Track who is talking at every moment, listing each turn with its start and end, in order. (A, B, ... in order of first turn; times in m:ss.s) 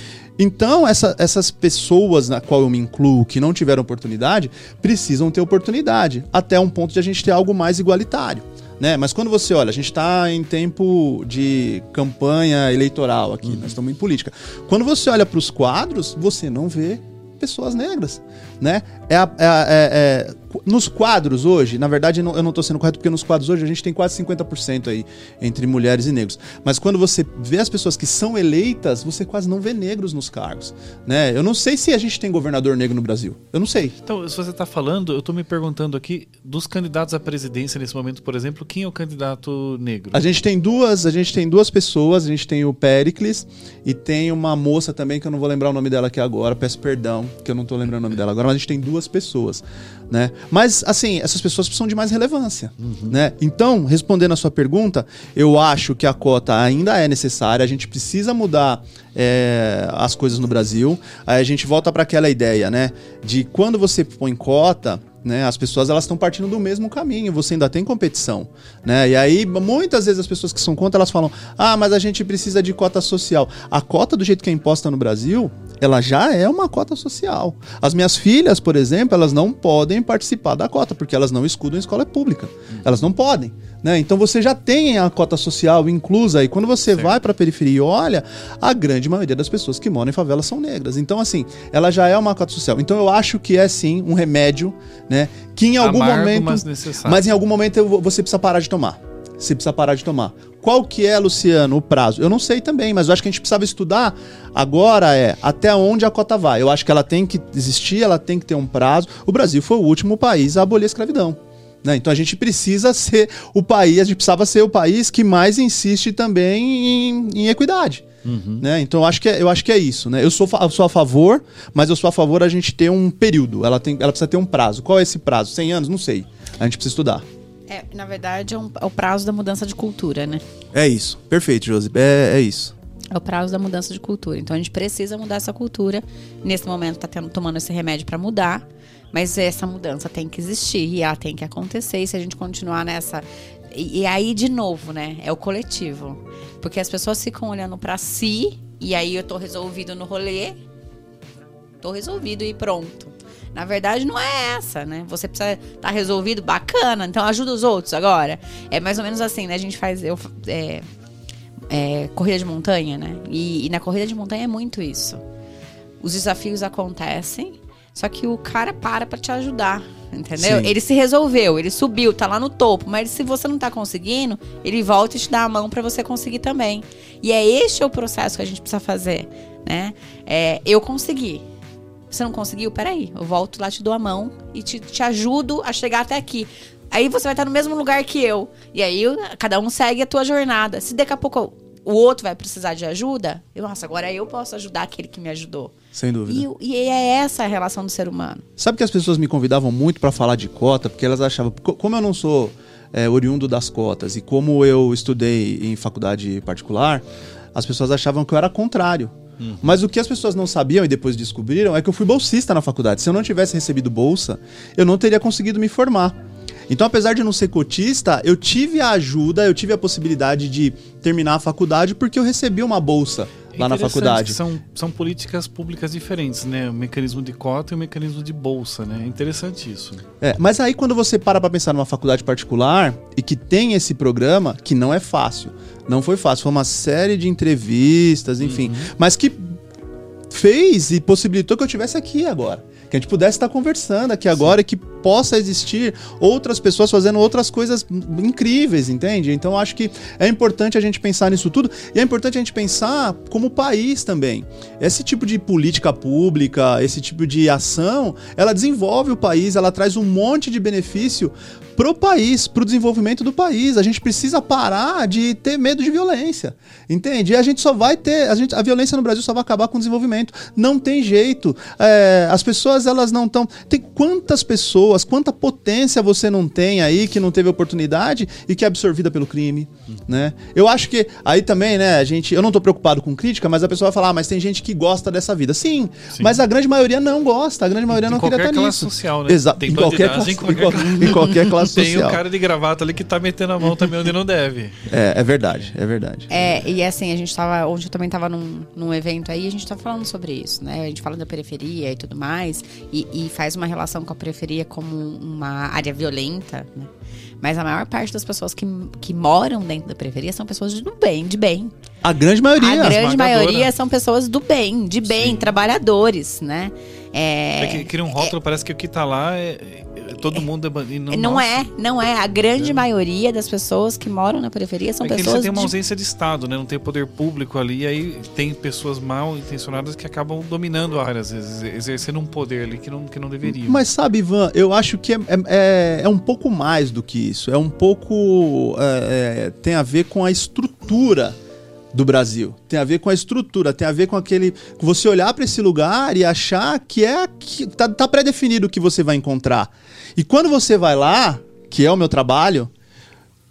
0:00.4-0:34.0 A
0:34.0-0:40.2 B
0:40.1-1:58.1 A
0:52.8-0:53.2 B
1:22.7-1:23.1 B
1:35.8-1:37.2 B
1:58.2-1:58.7 B
1:58.6-2:07.2 A
2:07.7-2:10.4 C
2:10.7-2:12.7 A
2:13.1-2:30.6 C
2:31.8-2:40.8 C
2:41.7-2:45.2 C
2:46.0-3:01.4 C
2:50.4-2:50.7 A
3:02.1-3:18.4 C
3:15.9-3:16.5 A
3:18.6-3:44.4 A
3:29.4-3:29.8 B
3:43.5-3:50.0 B
3:50.2-3:59.6 A
3:58.4-3:58.9 B
4:00.3-4:52.2 A
4:47.9-4:54.9 B
4:51.1-4:51.4 C
4:54.9-4:56.6 A
4:56.3-5:06.9 C
5:07.4-5:11.7 C
5:12.0-5:13.0 A
5:12.6-5:18.3 C
5:12.8-5:13.7 B
5:15.1-5:15.5 B
5:17.6-5:21.7 B
5:21.1-5:25.7 C
5:22.5-5:22.8 B
5:25.0-5:33.8 B
5:33.5-5:41.4 A
5:41.9-5:52.7 A